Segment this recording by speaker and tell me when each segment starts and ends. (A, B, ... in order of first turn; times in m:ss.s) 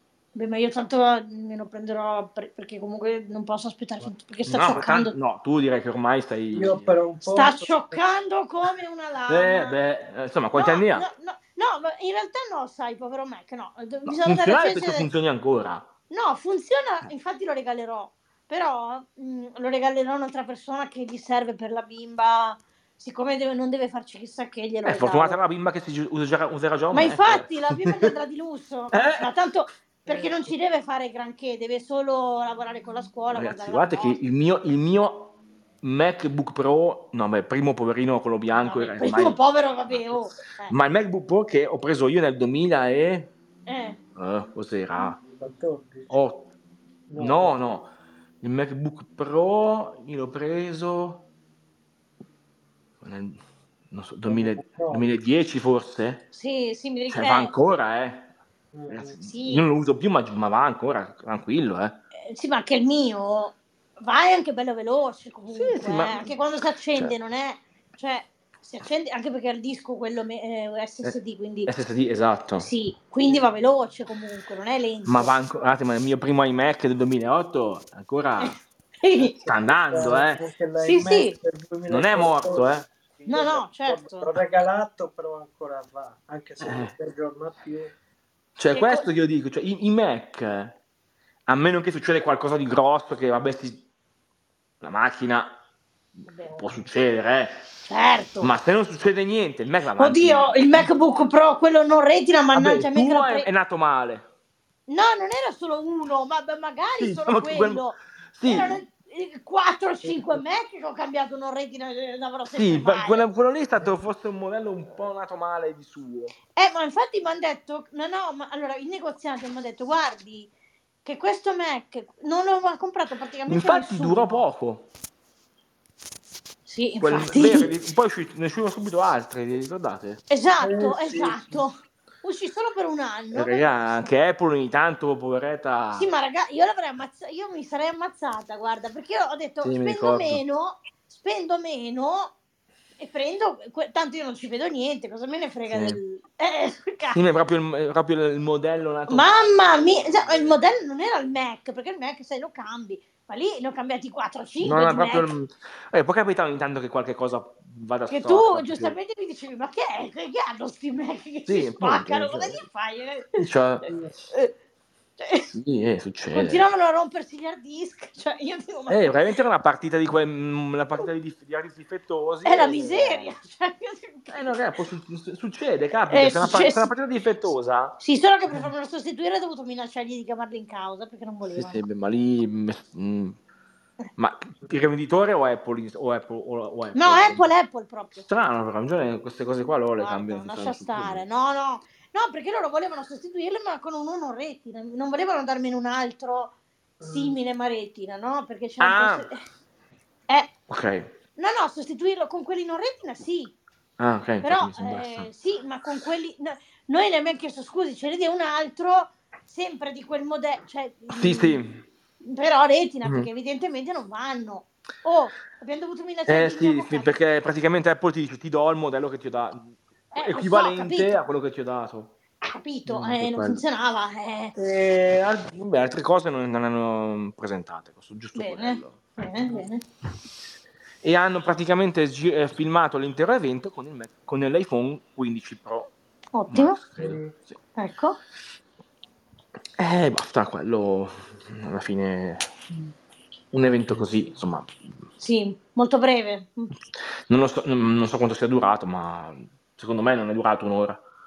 0:00.4-0:05.2 A
0:04.5-0:06.9 B
0:06.5-0:08.0 C
0:07.2-0:09.8 A
0:09.3-0:11.1 B
0:10.6-0:15.1 A
0:14.1-0:15.9 B
0:16.1-0:25.4 A
0:24.8-0:27.8 B
0:26.9-0:34.2 A
0:28.9-0:29.3 B
0:30.1-0:30.5 C
0:33.3-0:43.3 B
0:38.5-0:40.8 A
0:43.7-0:44.0 A
0:44.2-0:45.2 B
0:45.2-0:46.1 C
0:46.1-0:46.5 B
0:47.1-0:47.6 C
0:47.2-0:47.9 B
0:48.4-0:51.2 B
0:53.0-0:53.4 B
0:53.9-0:56.3 B
0:54.3-0:55.1 C
0:56.3-0:57.5 A
0:57.1-0:58.3 B
0:58.7-0:59.2 C
0:58.9-1:02.0 B
0:59.2-0:59.7 A
1:02.1-1:11.7 A
1:05.5-1:06.3 B
1:11.7-1:12.7 B
1:12.6-1:15.3 A
1:13.2-1:13.5 C
1:15.1-1:18.6 B
1:18.4-1:19.4 A
1:19.4-1:27.9 C
1:19.5-1:20.4 B
1:20.8-1:21.4 A
1:21.9-1:22.9 B
1:23.3-1:24.4 A
1:26.6-1:26.9 B
1:28.6-1:30.8 B
1:28.7-1:29.1 A
1:31.5-1:33.9 B
1:34.8-1:35.6 B
1:36.3-1:36.7 A
1:36.6-1:37.7 B
1:37.9-1:38.5 A
1:38.4-1:40.8 B
1:40.0-1:43.5 A
1:42.5-1:44.3 B
1:44.9-1:53.2 A
1:47.0-1:47.8 B
1:48.3-1:48.8 B
1:50.0-1:50.4 C
1:52.5-1:56.4 B
1:56.5-2:00.5 A
2:01.0-2:04.4 A
2:03.5-2:04.9 B
2:06.7-2:07.7 A
2:07.0-2:10.2 B
2:10.3-2:13.7 A
2:10.6-2:11.4 C
2:13.3-2:16.1 B
2:16.0-2:22.3 A
2:19.6-2:20.4 B
2:23.0-2:27.2 A
2:25.7-2:26.0 B
2:27.1-2:30.6 B
2:29.1-2:35.3 A
2:34.6-2:39.0 B
2:38.1-2:43.4 A
2:41.5-2:42.6 B
2:43.4-2:43.9 B
2:45.2-2:45.5 A
2:45.5-2:46.7 B
2:46.3-2:49.2 A
2:48.9-2:53.3 B
2:52.4-2:54.6 A
2:54.3-2:58.0 B
2:56.1-2:56.9 A
2:58.0-3:01.8 A
3:01.5-3:03.4 B
3:04.2-3:07.5 B
3:07.0-3:08.3 A
3:08.2-3:11.2 B
3:10.0-3:19.4 A
3:17.0-3:17.4 C
3:18.8-3:19.3 B
3:20.7-3:21.1 B
3:21.4-3:23.6 A
3:24.0-3:25.3 B
3:24.4-3:31.6 A
3:31.1-3:31.9 B
3:32.2-3:37.1 A
3:36.3-3:42.2 B
3:40.1-3:41.2 A
3:42.4-3:44.5 A
3:42.9-3:43.6 B
3:44.6-3:45.3 C
3:45.3-3:49.0 B
3:48.4-3:49.8 A
3:51.0-3:55.9 B
3:56.3-3:56.8 A
3:56.5-3:57.6 B
3:57.0-3:57.3 C
3:57.8-3:58.2 A
3:59.8-4:02.5 B
4:03.5-4:04.7 B
4:05.2-4:06.7 A
4:07.3-4:11.0 B